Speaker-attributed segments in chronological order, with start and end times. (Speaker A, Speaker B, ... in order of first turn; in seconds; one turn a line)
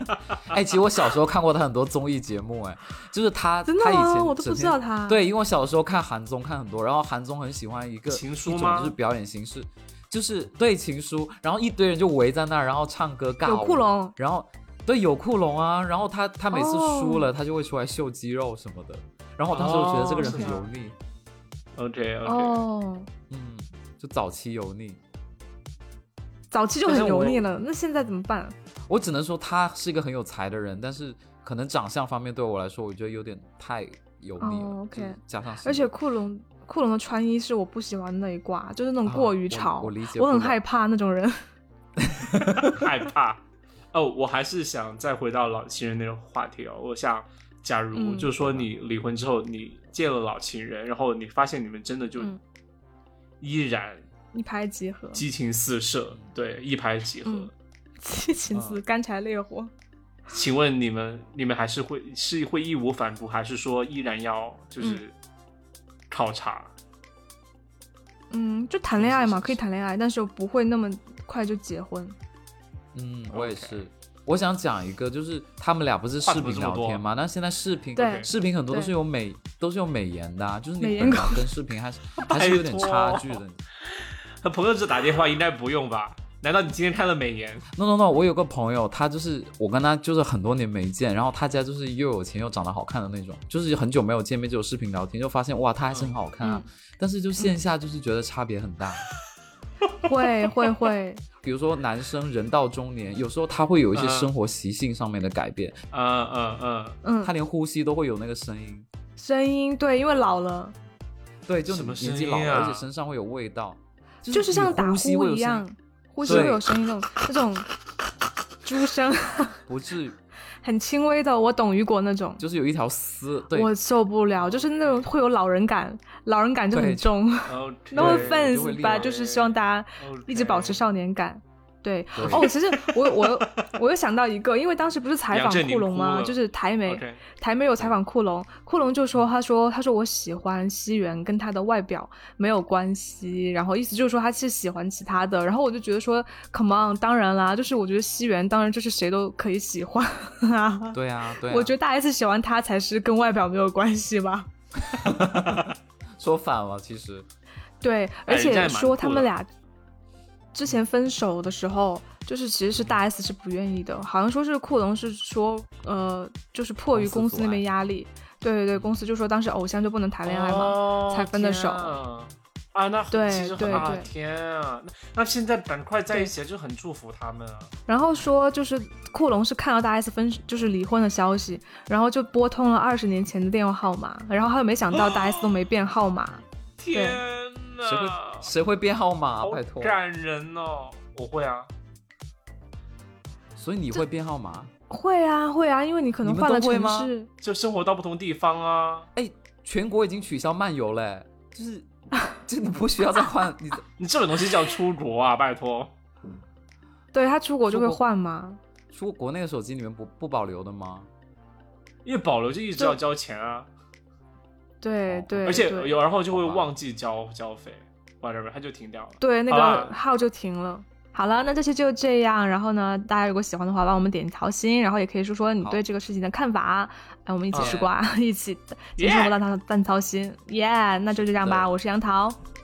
Speaker A: 0.3-0.6
Speaker B: 0.5-21.0
Speaker C: 3.6-5.2
Speaker A: 8.1-8.9
Speaker C: 13.4-14.1
Speaker C: 16.5-17.3
Speaker A: 19.5-20.7
Speaker C: 20.2-20.6
Speaker A: 21.8-22.6
Speaker C: 22.3-23.1
Speaker B: 23.3-25.0
Speaker C: 26.5-28.6
Speaker A: 26.8-27.4
Speaker B: 28.9-35.9
Speaker C: 34.4-41.5
Speaker B: 39.0-40.6
Speaker B: 42.0-42.9
Speaker A: 42.4-43.4
Speaker A: 43.9-52.3
Speaker C: 47.9-48.4
Speaker B: 48.4-48.7
Speaker A: 53.4-54.1
Speaker C: 54.3-55.2
Speaker A: 55.1-57.5
Speaker C: 58.0-59.7
Speaker A: 58.5-58.8
Speaker A: 60.3-65.1
Speaker A: 66.1-66.7
Speaker C: 68.3-72.2
Speaker A: 68.9-69.6
Speaker B: 72.9-83.6
Speaker A: 73.3-73.8
Speaker A: 76.2-77.0
Speaker C: 78.0-78.9
Speaker A: 78.0-78.3
Speaker C: 80.8-81.5
Speaker A: 82.2-87.7
Speaker B: 87.7-99.1
Speaker A: 95.9-96.2
Speaker C: 96.4-96.7
Speaker C: 100.0-101.2
Speaker B: 101.4-105.8
Speaker A: 103.9-104.3
Speaker A: 105.9-107.0
Speaker C: 107.0-107.3
Speaker B: 107.2-108.9
Speaker C: 109.2-110.8
Speaker B: 111.5-115.6
Speaker A: 111.7-112.8
Speaker C: 114.3-117.7
Speaker B: 116.2-116.6
Speaker A: 116.2-116.5
Speaker C: 118.6-119.6
Speaker B: 119.7-120.2
Speaker C: 120.6-122.4
Speaker B: 122.4-123.7
Speaker C: 123.5-154.5
Speaker A: 124.4-125.1
Speaker B: 126.7-127.1
Speaker A: 127.5-130.8
Speaker B: 128.0-129.1
Speaker B: 132.2-132.5
Speaker A: 132.2-133.5
Speaker A: 135.3-137.2
Speaker B: 150.9-151.7
Speaker B: 154.9-157.3
Speaker A: 155.3-155.7
Speaker C: 157.8-159.5
Speaker A: 158.3-159.3
Speaker C: 160.5-172.0
Speaker B: 166.9-167.7
Speaker A: 170.2-177.7
Speaker C: 173.1-174.1
Speaker B: 173.6-173.9
Speaker C: 177.9-187.2
Speaker A: 186.8-188.5
Speaker B: 187.8-190.0
Speaker A: 189.4-191.7
Speaker B: 193.6-194.7
Speaker C: 194.9-197.3
Speaker B: 196.2-197.1
Speaker A: 197.4-199.1
Speaker B: 199.2-203.8
Speaker A: 204.0-205.9
Speaker C: 207.1-208.6
Speaker B: 207.7-208.0
Speaker B: 208.9-211.1
Speaker A: 212.1-213.7
Speaker C: 214.8-216.0
Speaker B: 215.1-215.5
Speaker A: 215.4-219.9
Speaker B: 216.3-216.7
Speaker C: 219.2-232.4
Speaker A: 227.5-227.8
Speaker B: 227.6-227.9
Speaker A: 229.0-229.4